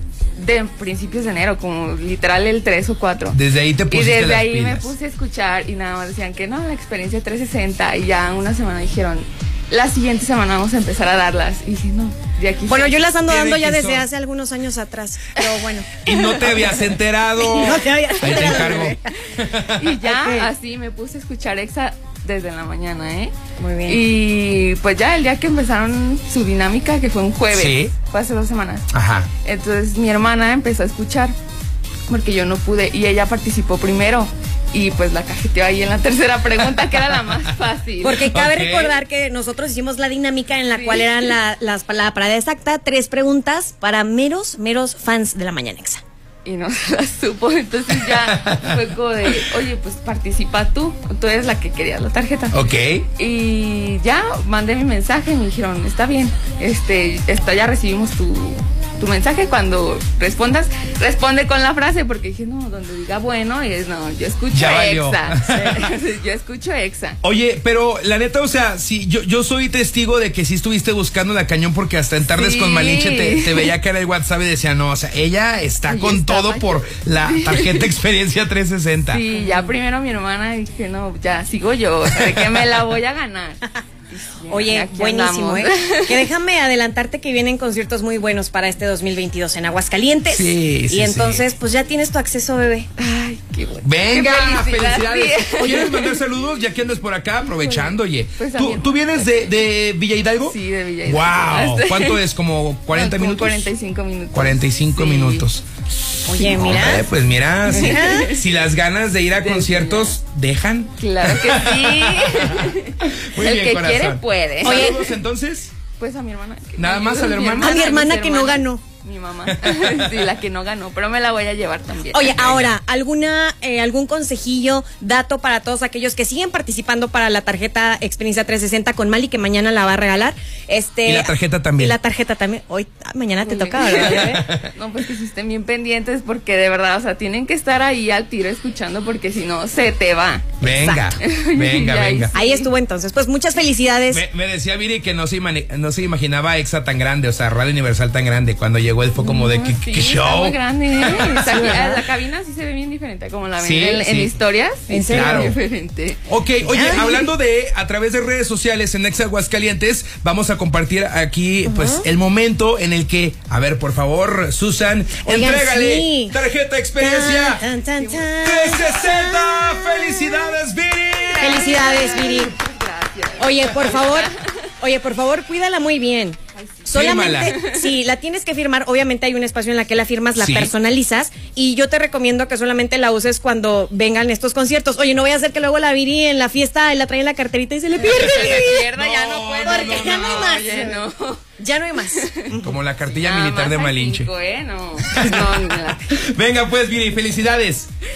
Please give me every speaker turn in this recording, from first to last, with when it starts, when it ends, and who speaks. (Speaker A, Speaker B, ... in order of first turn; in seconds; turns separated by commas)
Speaker A: 0.3-3.4, Speaker B: 3.3-4.9, Speaker A: 3.9-13.1, Speaker C: 12.7-19.0, Speaker B: 13.2-14.1, Speaker B: 16.0-19.9, Speaker A: 18.3-19.0, Speaker A: 19.7-23.3, Speaker C: 20.0-20.5, Speaker C: 23.6-24.0, Speaker A: 23.9-28.9, Speaker B: 27.5-27.9, Speaker B: 28.9-29.3, Speaker A: 29.4-31.3, Speaker A: 32.1-38.2, Speaker C: 38.0-46.0, Speaker B: 38.3-39.0, Speaker A: 40.7-41.3, Speaker A: 46.4-52.6, Speaker B: 48.1-48.8, Speaker B: 52.5-53.0, Speaker A: 53.1-67.2, Speaker B: 64.5-65.9, Speaker B: 67.2-79.2, Speaker A: 72.3-73.7, Speaker A: 75.8-77.9, Speaker A: 79.1-86.2, Speaker C: 79.3-79.7, Speaker B: 82.2-82.5, Speaker C: 84.5-92.9, Speaker B: 90.3-91.4, Speaker A: 93.0-96.2, Speaker B: 93.8-103.7, Speaker A: 97.6-99.3, Speaker A: 100.4-102.2, Speaker A: 102.9-105.4, Speaker B: 104.3-115.7, Speaker C: 106.2-107.0, Speaker C: 107.6-108.3, Speaker A: 107.7-108.4, Speaker A: 109.4-110.2, Speaker A: 111.0-115.0, Speaker C: 114.6-115.1, Speaker A: 116.0-122.5, Speaker B: 116.8-117.9, Speaker C: 117.6-118.8, Speaker B: 119.5-120.2, Speaker C: 122.1-134.4, Speaker B: 122.3-122.7, Speaker B: 131.0-132.0, Speaker A: 133.4-140.6, Speaker B: 133.8-134.7, Speaker B: 140.6-142.3, Speaker C: 140.7-141.2, Speaker A: 141.2-142.7, Speaker C: 142.3-144.2, Speaker B: 144.1-151.9, Speaker A: 149.2-156.2, Speaker C: 151.4-152.0, Speaker B: 153.6-154.3, Speaker C: 154.9-155.6, Speaker B: 155.0-155.6, Speaker B: 156.3-167.7, Speaker C: 156.6-157.2, Speaker C: 161.7-162.1, Speaker C: 165.2-166.3, Speaker C: 167.0-169.1, Speaker A: 168.0-168.2, Speaker B: 168.2-171.7, Speaker A: 171.2-174.6, Speaker C: 171.4-172.5, Speaker C: 173.4-188.8, Speaker A: 176.6-177.9, Speaker B: 176.9-177.6, Speaker B: 180.3-180.7, Speaker A: 187.9-191.4, Speaker B: 188.2-190.7, Speaker C: 189.6-191.0, Speaker C: 191.6-192.8, Speaker A: 192.0-192.5, Speaker B: 192.6-194.3, Speaker A: 193.1-196.2, Speaker B: 195.1-197.9